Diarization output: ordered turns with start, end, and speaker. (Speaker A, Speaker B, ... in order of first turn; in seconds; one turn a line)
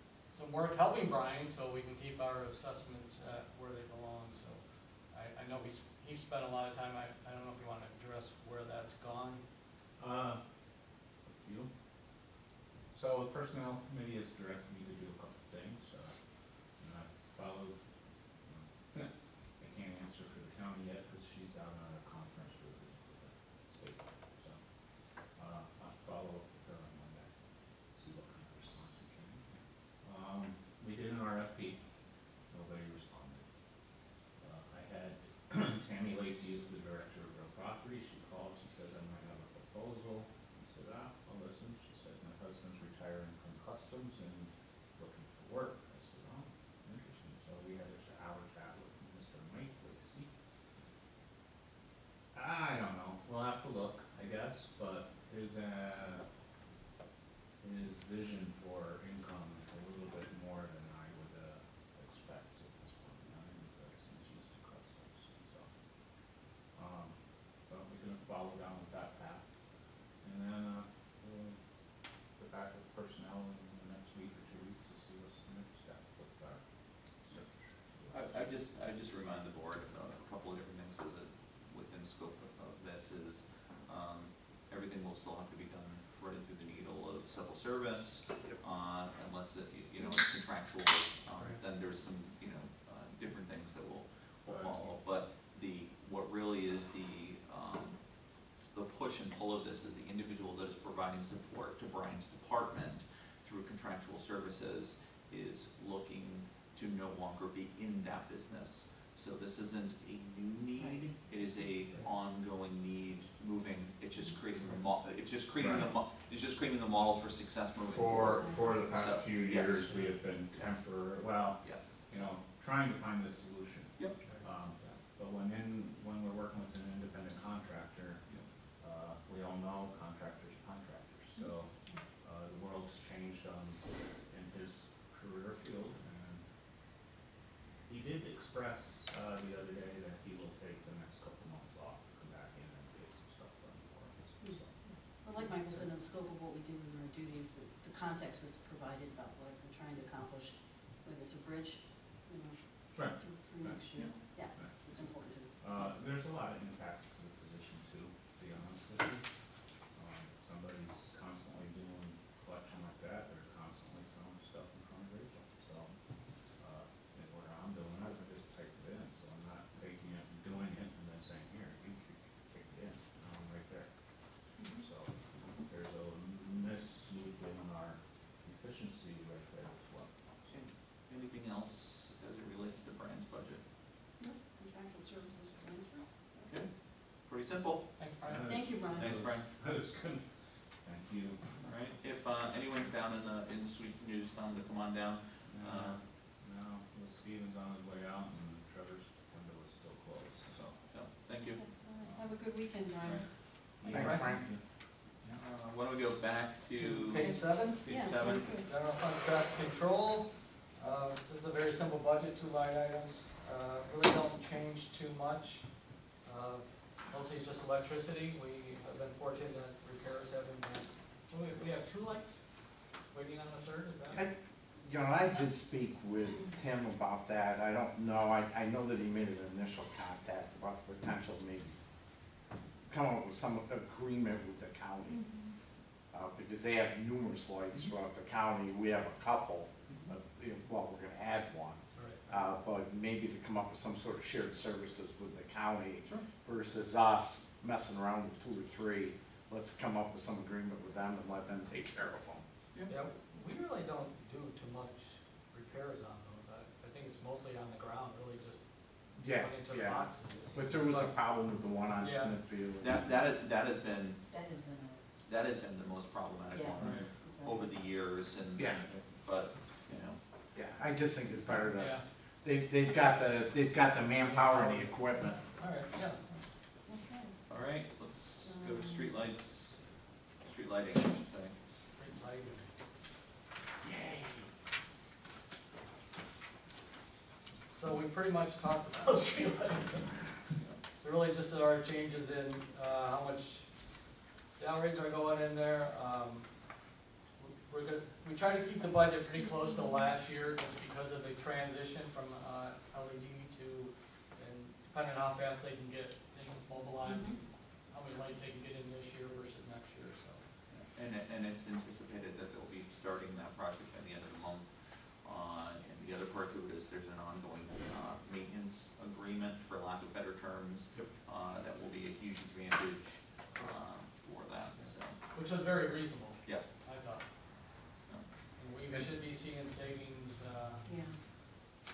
Speaker A: 0.3-9.4
Speaker B: 10.0-10.5
Speaker B: 11.2-11.7
Speaker B: 12.9-16.2
Speaker B: 16.7-17.8
Speaker B: 18.4-27.3
Speaker B: 27.9-31.8
Speaker B: 32.5-33.4
Speaker B: 34.4-50.3
Speaker B: 52.3-56.2
Speaker B: 57.6-65.7
Speaker B: 66.7-69.4
Speaker B: 70.2-71.6
Speaker B: 72.3-76.6
Speaker B: 77.2-78.2
Speaker C: 78.1-98.0
Speaker B: 94.5-94.8
Speaker C: 98.7-120.8
Speaker D: 110.8-111.2
Speaker B: 115.5-115.8
Speaker B: 117.9-128.2
Speaker D: 118.1-118.7
Speaker C: 121.6-122.3
Speaker B: 128.8-136.4
Speaker D: 131.4-132.0
Speaker B: 137.8-145.9
Speaker D: 144.4-155.9
Speaker B: 152.9-159.2
Speaker B: 159.9-165.9
Speaker B: 166.6-180.5
Speaker D: 174.6-174.8
Speaker C: 180.5-183.6
Speaker D: 184.2-186.5
Speaker C: 186.4-189.5
Speaker A: 188.0-188.5
Speaker B: 188.2-190.2
Speaker D: 188.5-189.1
Speaker B: 190.8-191.7
Speaker C: 191.6-196.0
Speaker B: 195.4-200.8
Speaker C: 200.6-202.2
Speaker D: 201.5-203.3
Speaker B: 203.8-204.6
Speaker E: 203.9-204.5
Speaker A: 203.9-204.3
Speaker C: 205.4-208.4
Speaker A: 206.7-222.4
Speaker D: 207.1-208.7
Speaker A: 223.0-224.2
Speaker E: 224.1-231.8
Speaker E: 232.9-235.3
Speaker D: 235.1-235.5
Speaker E: 236.1-252.4
Speaker A: 241.9-242.2
Speaker A: 252.9-261.2
Speaker E: 259.2-263.0
Speaker A: 262.0-262.3
Speaker C: 262.8-264.2
Speaker D: 264.3-265.1
Speaker C: 265.2-270.2
Speaker D: 266.5-267.7
Speaker A: 266.8-267.1
Speaker E: 268.6-268.9
Speaker E: 270.5-275.4
Speaker A: 271.7-272.0
Speaker A: 272.9-273.3
Speaker A: 274.1-276.4
Speaker D: 276.9-277.4
Speaker C: 277.5-279.8
Speaker D: 278.4-279.1
Speaker C: 280.4-281.6
Speaker A: 281.9-282.7
Speaker C: 283.8-284.5
Speaker A: 287.7-290.2
Speaker A: 291.0-293.7
Speaker A: 294.5-296.6
Speaker A: 297.4-310.4
Speaker D: 299.4-300.0
Speaker D: 307.0-307.4
Speaker C: 310.7-314.7
Speaker C: 315.2-325.2
Speaker A: 325.3-327.2
Speaker C: 326.4-326.7
Speaker A: 328.6-330.9
Speaker D: 330.8-331.2